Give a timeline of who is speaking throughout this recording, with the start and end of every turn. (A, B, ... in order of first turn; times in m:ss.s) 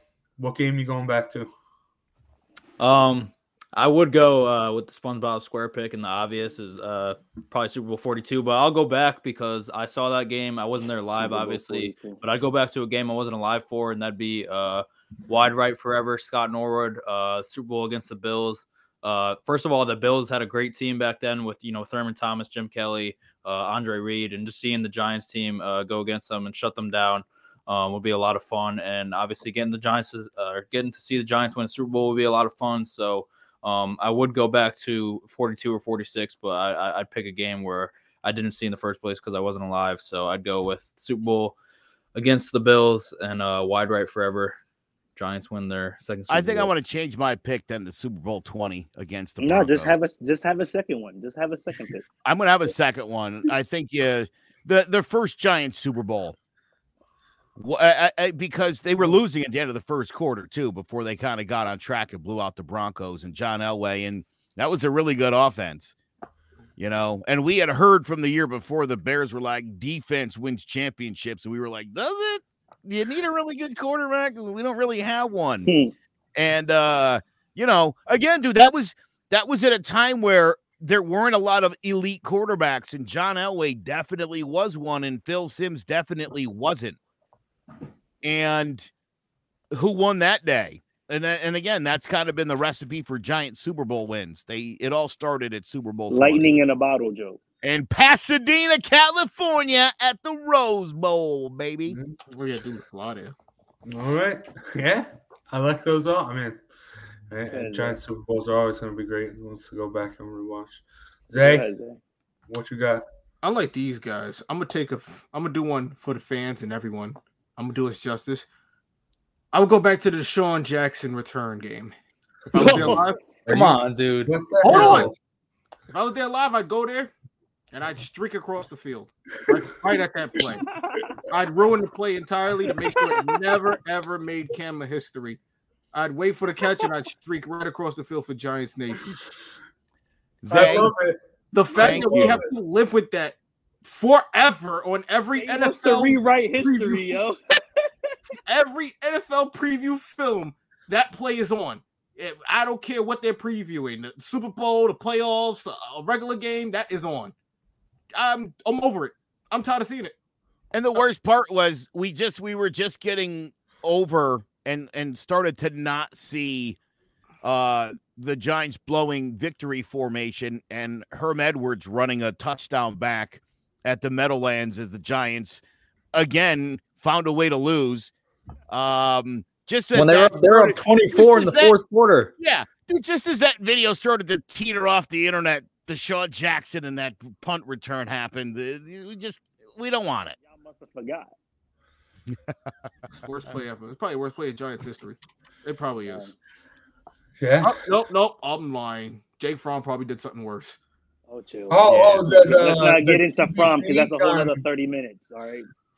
0:00.4-0:01.5 A
0:02.8-0:41.6 B
0:10.9-0:12.2 C
0:42.2-0:44.6 B
0:45.2-0:46.7 B
0:46.3-0:50.0 D
0:49.4-0:52.1 C
0:52.2-0:56.4 D
0:57.6-1:06.0 D
1:06.8-1:15.7 D
1:15.7-1:15.9 C
1:16.4-1:27.0 D
1:28.2-1:28.9 D
1:29.7-1:36.5 D
1:36.1-1:37.4 C
1:37.6-1:42.0 D
1:41.9-1:42.2 A
1:42.3-1:43.3 E
1:43.9-1:46.6 A
1:47.3-1:51.7 A
1:47.5-1:48.0 C
1:51.4-1:52.0 C
1:52.5-1:53.0 A
1:53.4-1:58.5 E
1:59.5-2:01.9 E
2:02.5-2:03.2 E
2:02.6-2:02.9 A
2:02.6-2:02.9 B
2:02.7-2:03.0 C
2:03.5-2:05.2 A
2:03.5-2:05.1 B
2:04.6-2:05.1 E
2:05.9-2:07.1 E
2:07.7-2:10.6 E
2:10.6-2:11.1 C
2:11.3-2:15.4 E
2:15.9-2:19.2 E
2:20.4-2:20.9 D
2:20.5-2:20.9 E
2:20.5-2:21.2 A
2:21.5-2:27.2 E
2:21.8-2:22.4 A
2:21.8-2:22.4 D
2:25.4-2:28.1 C
2:28.4-2:37.3 E
2:38.1-2:40.1 E
2:40.7-2:46.8 D
2:47.4-2:55.6 D
2:56.1-2:58.1 D
2:58.7-3:01.8 D
2:59.9-3:02.3 B
3:02.4-3:10.4 D
3:10.4-3:11.3 C
3:13.1-3:16.3 E
3:16.0-3:16.3 C
3:17.4-3:17.8 A
3:17.6-3:20.8 E
3:21.3-3:25.7 C
3:21.7-3:24.6 A
3:21.9-3:22.2 D